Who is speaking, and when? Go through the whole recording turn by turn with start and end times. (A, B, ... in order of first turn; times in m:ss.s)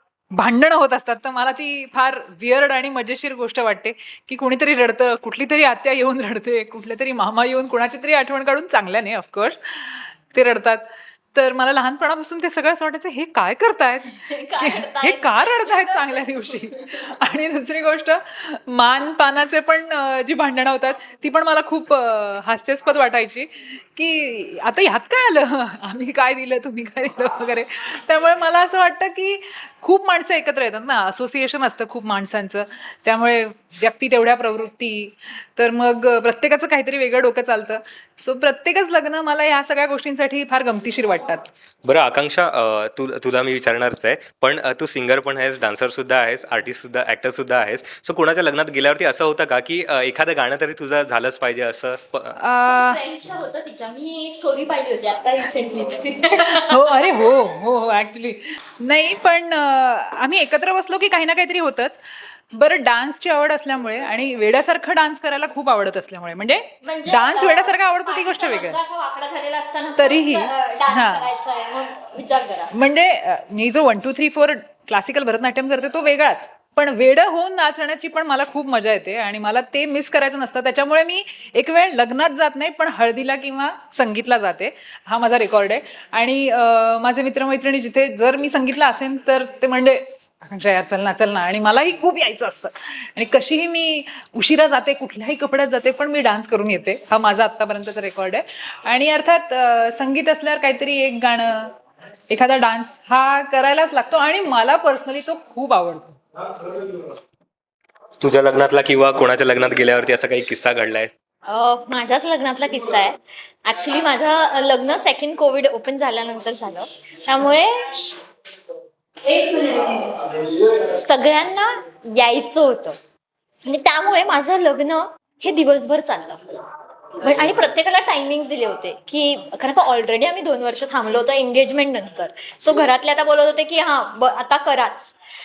0:00.3-0:41.5 A
0:14.1-0:16.7 B
0:41.8-0:52.4 C
0:52.4-0:53.0 A
0:52.7-0:57.0 B
0:56.4-1:08.8 A
1:06.8-1:12.7 B
1:10.0-1:11.3 A
1:12.7-1:41.7 A
1:42.3-1:46.2 A
1:48.2-1:51.1 C
1:51.5-1:58.1 B
1:59.3-2:03.0 B
2:03.6-2:06.4 B
2:07.2-2:15.1 B